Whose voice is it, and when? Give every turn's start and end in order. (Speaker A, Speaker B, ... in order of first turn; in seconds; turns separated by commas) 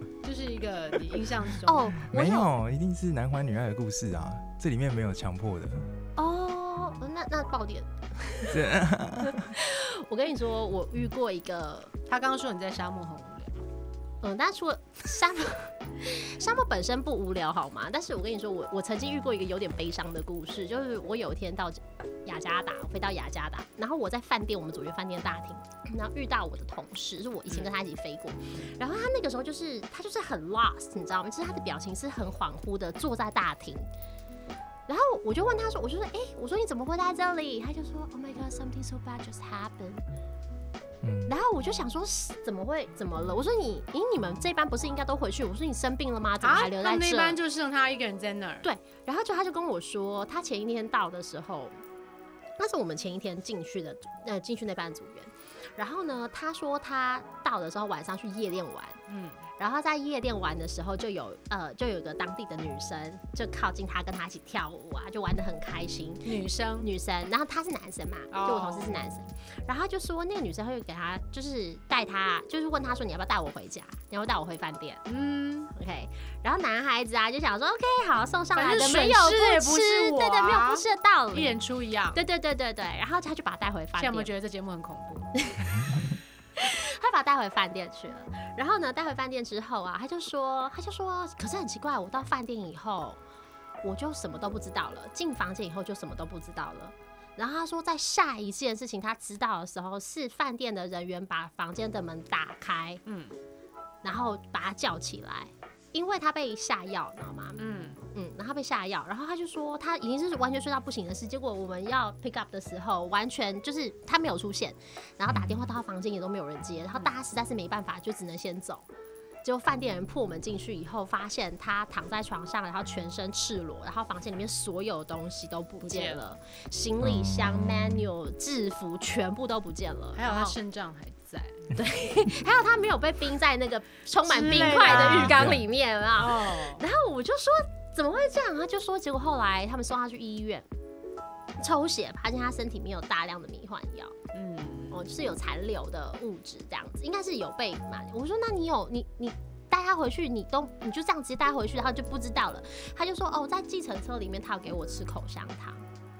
Speaker A: 0.2-1.9, Speaker B: 1.6-2.5, Speaker C: 2.0-5.9, Speaker B: 6.2-8.6, Speaker C: 8.5-9.5, Speaker B: 9.3-11.9, Speaker A: 12.1-13.6, Speaker B: 14.2-33.9, Speaker B: 34.9-40.0, Speaker C: 41.0-41.3, Speaker B: 41.3-47.4, Speaker A: 46.4-48.6, Speaker B: 48.6-51.8, Speaker B: 52.6-59.0, Speaker A: 59.1-59.4, Speaker B: 59.6-75.0, Speaker A: 66.2-66.9, Speaker A: 68.3-69.0, Speaker A: 75.0-75.7, Speaker B: 75.7-81.6, Speaker A: 78.5-82.2, Speaker B: 82.1-84.3, Speaker A: 84.0-85.3, Speaker B: 85.4-85.7, Speaker B: 86.6-93.2, Speaker B: 93.8-103.0, Speaker A: 103.0-103.3, Speaker B: 104.0-118.9, Speaker A: 107.6-108.0, Speaker C: 115.3-115.7, Speaker B: 119.4-130.6, Speaker A: 125.8-126.2, Speaker C: 127.0-128.1, Speaker A: 130.2-131.7, Speaker B: 131.7-140.7, Speaker A: 134.2-135.6, Speaker C: 134.8-135.6, Speaker A: 136.2-136.8, Speaker B: 141.6-144.2, Speaker A: 144.3-145.0, Speaker B: 144.9-155.8